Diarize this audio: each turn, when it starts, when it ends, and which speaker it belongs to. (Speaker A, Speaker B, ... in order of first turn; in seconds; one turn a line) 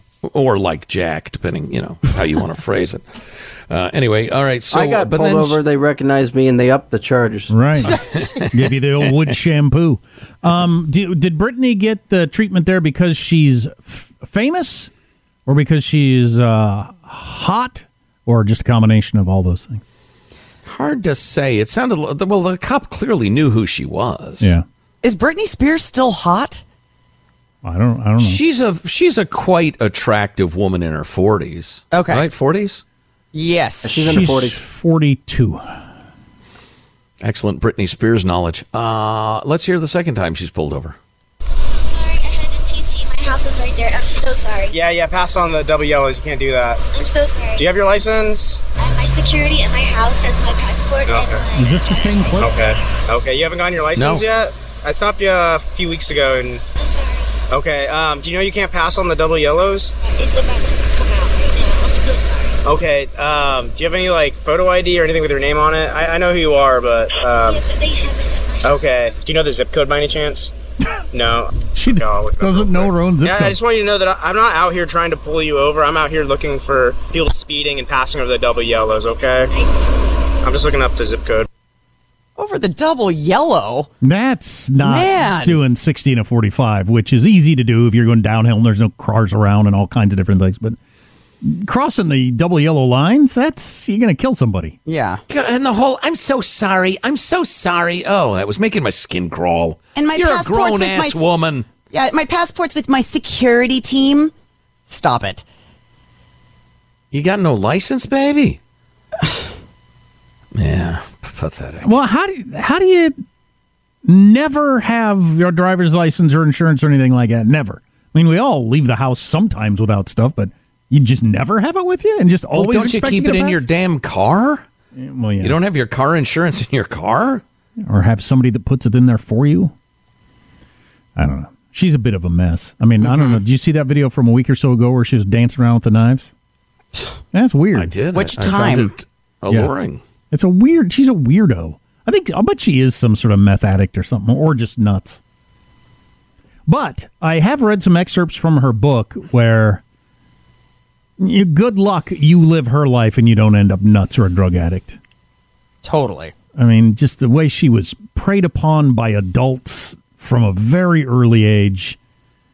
Speaker A: 0.2-5.6
Speaker B: 4.7-7.6
Speaker C: 7.5-14.9
Speaker D: 7.8-8.5
Speaker A: 8.1-8.4
Speaker C: 15.5-19.8
Speaker A: 20.7-24.6
Speaker D: 25.0-26.6
Speaker C: 27.6-28.4
Speaker A: 28.2-32.8
Speaker D: 31.9-32.3
Speaker D: 33.3-34.2
Speaker B: 33.8-34.6
Speaker C: 34.0-35.8
Speaker A: 37.2-41.0
Speaker E: 41.7-44.8
Speaker F: 44.7-46.8
Speaker E: 46.9-47.8
Speaker F: 47.6-48.6
Speaker E: 48.8-52.8
Speaker F: 51.1-51.5
Speaker C: 51.5-52.7
Speaker F: 52.4-56.6
Speaker A: 54.0-54.2
Speaker E: 56.8-57.4
Speaker F: 57.5-59.9
Speaker E: 60.0-62.6
Speaker F: 62.6-67.6
Speaker E: 67.5-69.0
Speaker F: 68.6-70.5
Speaker F: 71.1-79.6
Speaker C: 71.7-73.6
Speaker F: 80.4-81.5
Speaker D: 82.4-83.9
Speaker C: 84.0-90.8
Speaker D: 84.8-85.6
Speaker C: 91.4-94.8
Speaker D: 94.9-95.2
Speaker A: 95.3-101.7
Speaker D: 100.0-101.3
Speaker D: 101.8-104.3
Speaker D: 104.9-105.4
Speaker A: 107.1-108.6
Speaker A: 110.5-111.9
Speaker C: 111.8-113.2
Speaker C: 114.0-123.6
Speaker A: 122.5-124.7
Speaker C: 125.0-125.6
Speaker A: 125.4-127.4
Speaker C: 127.9-129.7
Speaker C: 131.2-136.3
Speaker D: 133.0-133.4
Speaker C: 137.3-138.8
Speaker A: 137.7-140.0
Speaker D: 138.1-138.9
Speaker C: 140.3-145.2
Speaker C: 146.7-149.8
Speaker C: 151.2-155.0
Speaker D: 155.8-156.3
Speaker C: 156.6-162.0